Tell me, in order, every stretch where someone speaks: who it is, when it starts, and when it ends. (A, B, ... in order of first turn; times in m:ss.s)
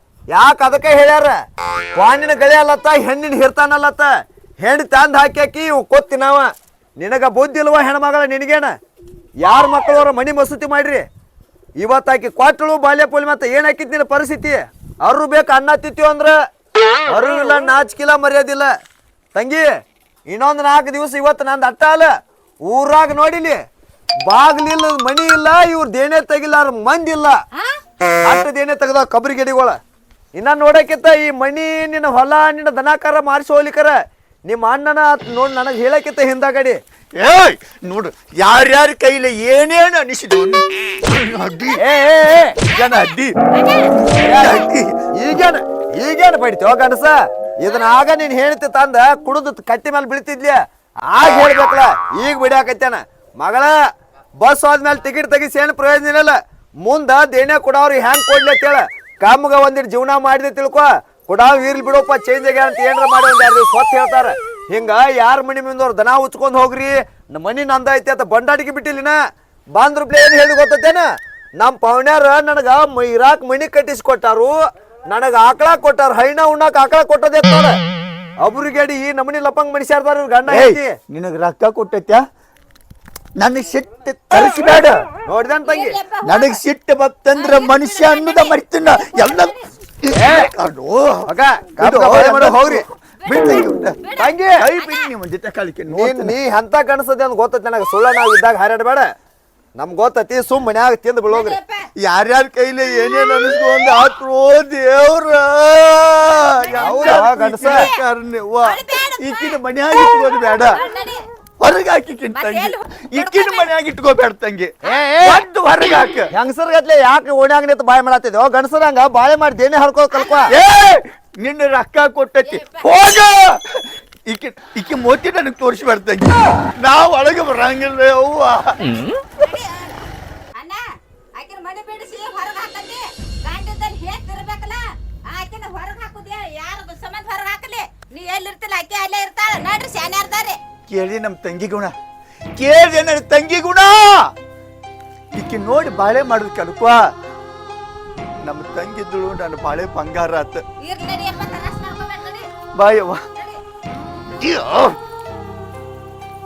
0:00.3-0:01.4 A
0:01.9-0:08.7 A
0:09.4-0:11.0 A
0:11.8-0:16.3 A
0:17.1-0:18.7 A
0:19.3-0:19.7 A
0:20.3-0:22.1 A
0:22.6-0:23.6 A
0:24.2-0:27.4 A
0:28.2-0:29.8 A
0:30.3-0:36.8 A
0:37.2-0:41.8 B
0:41.8-0:42.6 A
0:42.7-0:43.3 B
0:43.5-0:44.0 C
0:44.0-0:45.4 B
0:44.2-0:53.7 A
0:54.4-1:09.2 A
1:09.8-1:11.0 A
1:11.6-1:14.5 A
1:15.1-1:17.8 A
1:18.4-1:20.9 A
1:20.5-1:22.2 B
1:23.4-1:25.1 B
1:25.2-1:26.0 A
1:25.7-1:26.6 C
1:26.2-1:34.0 B
1:27.3-1:29.7 C
1:30.1-1:30.5 A
1:31.3-1:32.8 A
1:33.2-1:35.1 C
1:34.2-1:34.6 A
1:34.6-1:36.4 B
1:35.9-1:39.1 A
1:39.8-1:41.6 A
1:41.3-1:41.8 C
1:42.0-1:50.8 B
1:46.4-1:47.9 C
1:46.8-1:47.8 A
1:48.6-1:51.2 C
1:51.6-1:56.3 B
1:52.3-1:53.7 C
1:54.8-1:55.4 A
1:56.3-2:00.5 A
2:00.2-2:00.4 C
2:00.5-2:09.0 B
2:02.4-2:02.9 C
2:09.4-2:10.0 C
2:10.6-2:10.8 C
2:11.4-2:20.6 C
2:20.9-2:21.9 B
2:22.6-2:24.3 B
2:25.4-2:27.0 B
2:28.4-2:30.6 B
2:30.8-2:32.5 C
2:32.7-2:33.2 B
2:33.4-2:33.6 C
2:34.3-2:35.0 B